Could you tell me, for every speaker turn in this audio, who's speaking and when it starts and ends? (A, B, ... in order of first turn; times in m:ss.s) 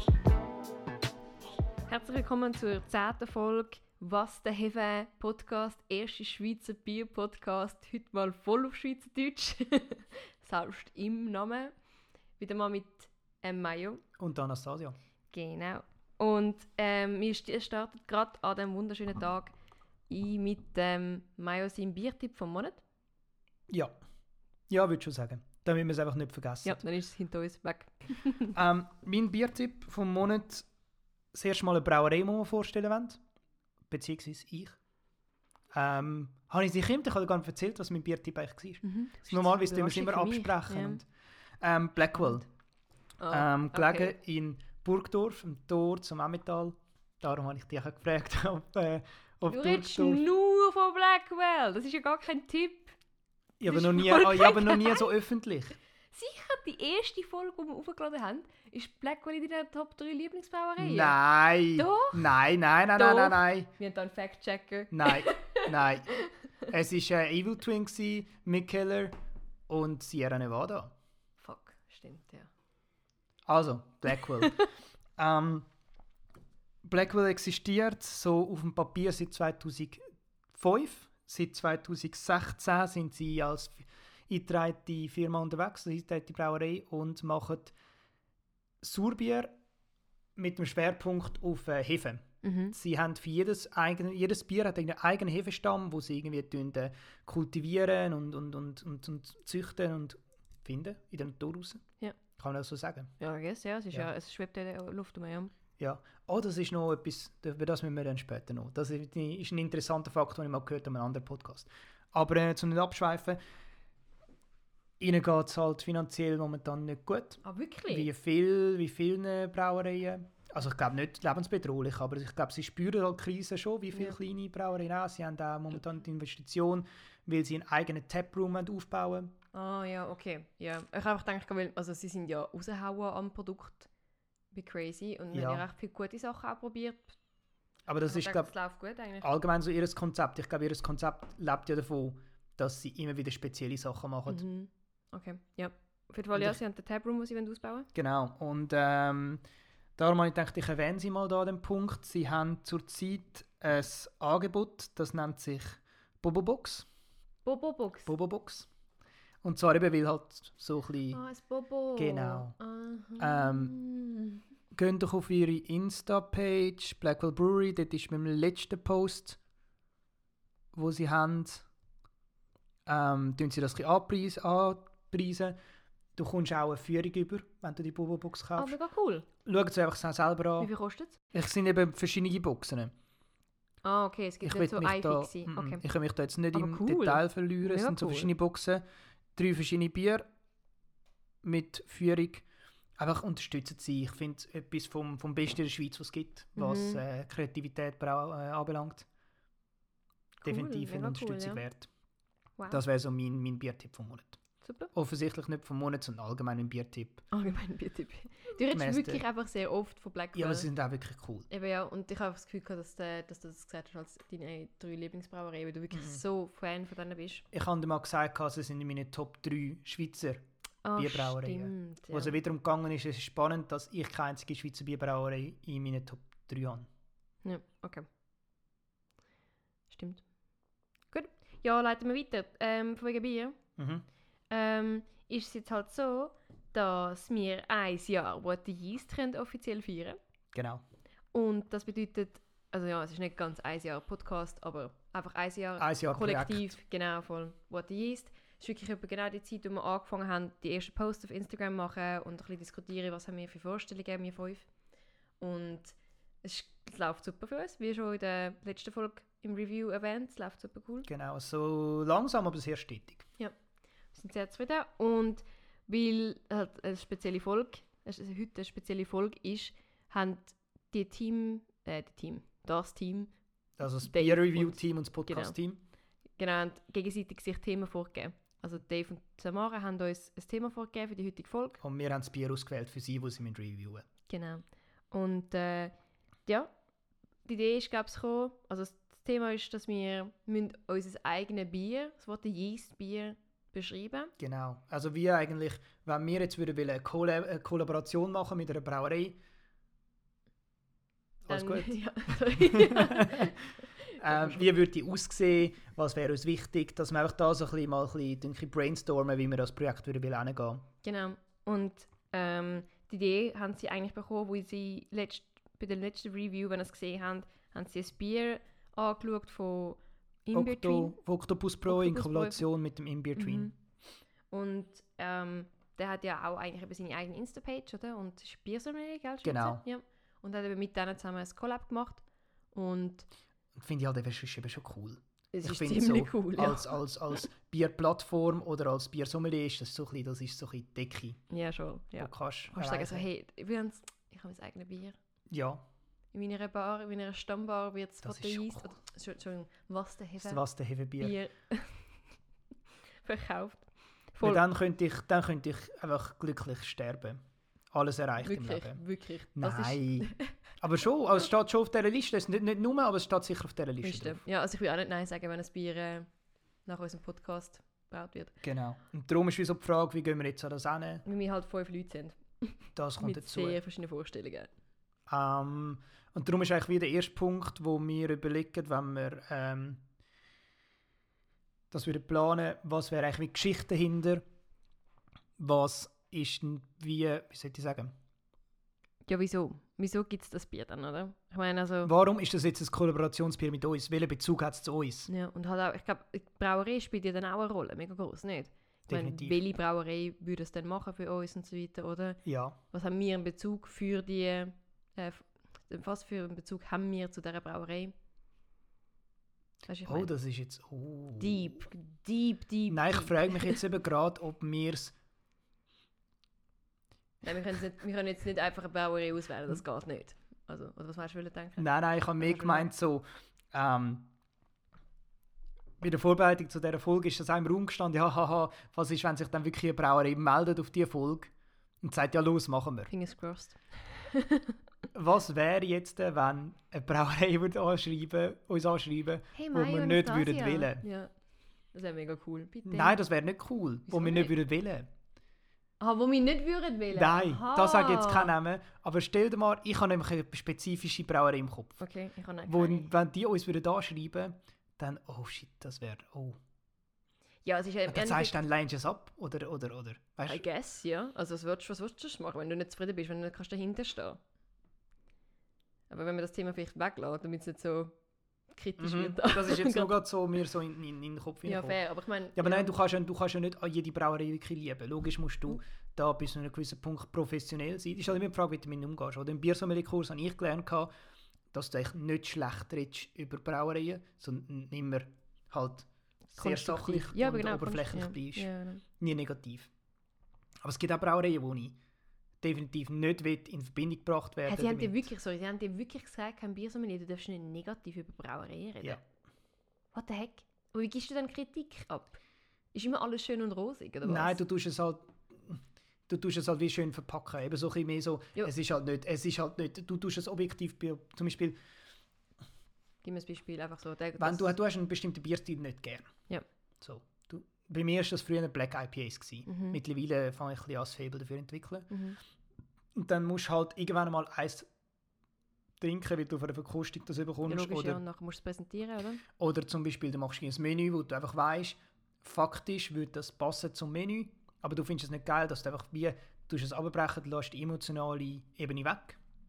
0:01.9-0:11.7 A
0:12.4-0:14.0 A
0:14.2-0:15.0 B
0:15.3-0:19.5 A
0:20.1-0:22.8 A
0:24.7-0:26.8 B
0:26.6-0:28.5 A
0:28.5-0:30.7 B
0:31.3-0:33.2 B
0:33.9-0:34.8 B
0:35.7-0:41.1 B
0:38.8-0:41.0 A
0:41.6-0:42.4 B
0:42.2-0:42.4 A
0:43.2-0:44.2 A
0:43.3-0:50.2 B
0:49.5-0:52.9 A
0:53.6-0:55.7 B
0:53.7-0:55.0 A
0:56.1-1:01.2 A
1:00.8-1:03.7 B
1:01.7-1:02.3 A
1:02.9-1:06.3 A
1:04.9-1:06.1 B
1:06.7-1:09.1 B
1:09.7-1:10.9 B
1:11.4-1:12.5 A
1:13.4-1:14.6 B
1:15.2-1:15.7 B
1:16.8-1:27.7 B
1:28.8-1:29.5 B
1:30.4-1:41.8 B
1:32.4-1:32.7 A
1:42.4-1:43.1 B
1:43.2-1:45.5 A
1:45.8-1:53.4 B
1:55.0-2:09.3 B
1:57.4-1:58.1 A
2:09.5-2:13.9 A
2:14.5-2:17.2 A
2:15.3-2:15.6 B
2:17.9-2:18.5 B
2:18.1-2:19.3 A
2:19.2-2:24.4 B
2:24.3-2:27.9 A
2:27.9-2:29.4 B
2:30.0-2:36.9 B
2:37.4-2:38.1 A
2:38.1-2:38.7 B
2:39.4-2:41.2 B
2:41.1-2:44.4 A
2:41.9-2:42.6 B
2:43.2-2:43.7 B
2:44.7-2:49.4 B
2:50.7-2:51.6 B
2:52.8-2:55.6 B
2:56.2-2:58.7 B
2:58.6-2:59.2 A
2:59.4-3:00.7 B
3:00.6-3:01.2 A
3:01.3-3:02.9 B
3:03.8-3:05.8 A
3:04.4-3:08.8 B
3:06.5-3:08.3 A
3:09.4-3:10.2 B
3:11.4-3:12.4 B
3:13.0-3:19.1 B
3:16.6-3:17.0 A
3:20.4-3:21.6 A
3:20.4-3:21.9 B
3:22.7-3:24.4 B
3:24.6-3:24.9 A
3:24.9-3:27.2 B
3:27.3-3:30.7 A
3:28.7-3:29.2 B
3:30.3-3:31.5 B
3:31.5-3:37.4 A
3:35.9-3:36.2 B
3:37.5-3:40.4 B
3:40.8-3:42.3 A
3:41.0-3:46.9 B
3:47.4-3:48.0 A
3:49.9-3:50.2 A
3:51.1-3:53.6 A
3:53.8-3:54.0 B
3:54.5-4:00.2 A
4:00.5-4:00.8 B
4:01.3-4:14.7 A
4:05.8-4:06.8 B
4:15.4-4:21.1 A
4:21.1-4:23.3 B
4:24.1-4:33.3 A
4:33.8-4:35.8 B
4:34.0-4:35.5 A
4:36.4-4:41.8 A
4:41.8-4:44.0 B
4:44.3-4:45.9 A
4:46.4-4:46.7 A
4:47.4-4:54.3 A
4:54.4-4:59.4 B
5:01.4-5:03.5 B
5:01.5-5:04.6 A
5:04.1-5:10.9 B
5:11.0-5:21.2 A
5:20.5-5:23.7 B
5:21.8-5:22.6 A
5:23.4-5:23.7 A
5:24.5-5:33.3 A
5:29.4-5:29.8 B
5:33.7-5:41.4 B
5:35.5-5:37.0 A
5:41.5-5:45.2 A
5:42.2-5:43.2 B
5:45.5-5:45.8 B
5:46.3-5:50.6 A
5:48.2-5:48.9 B
5:50.4-5:51.3 B
5:51.2-5:52.2 A
5:53.2-5:54.6 A
5:54.4-5:57.4 B
5:57.9-5:59.0 B
5:58.4-6:00.5 A
5:59.6-6:04.4 B
6:04.0-6:06.3 A
6:06.8-6:08.5 A
6:08.6-6:11.2 B
6:11.2-6:14.7 A
6:13.0-6:13.8 B
6:15.3-6:20.0 B
6:21.9-6:24.4 B
6:25.6-6:28.1 B
6:29.3-6:32.1 A
6:32.0-6:35.3 B
6:35.3-6:48.1 A
6:39.1-6:39.6 B
6:42.4-6:42.8 B
6:49.9-6:50.3 A
6:50.1-6:51.8 B
6:51.4-6:53.8 A
6:52.9-6:55.1 B
6:57.4-7:02.9 A
7:01.8-7:04.3 B
7:06.0-7:13.1 B
7:13.1-7:14.7 A
7:15.1-7:21.0 B
7:19.5-7:21.3 A
7:21.9-7:23.2 A
7:22.8-7:25.1 B
7:24.1-7:24.5 A
7:26.0-7:28.5 A
7:27.1-7:32.0 B
7:32.0-7:33.1 A
7:32.7-7:36.6 B
7:37.6-7:38.6 A
7:38.1-7:40.6 B
7:40.4-7:44.4 A
7:46.1-7:48.1 A
7:48.7-7:50.2 A
7:49.0-7:52.0 B
7:51.6-7:52.9 A
7:52.5-8:01.1 B
8:01.7-8:09.9 B
8:06.5-8:09.0 A
8:10.8-8:12.0 B
8:12.6-8:15.2 B
8:14.7-8:19.2 A
8:20.1-8:22.4 A
8:22.9-8:24.6 A
8:24.2-8:31.8 B
8:33.2-8:34.7 A
8:34.4-8:36.3 B
8:37.0-8:42.1 B
8:39.7-8:40.0 A
8:42.1-8:42.4 A
8:43.1-8:44.9 B
8:46.0-8:48.2 B
8:47.6-8:49.4 A
8:49.6-8:59.4 B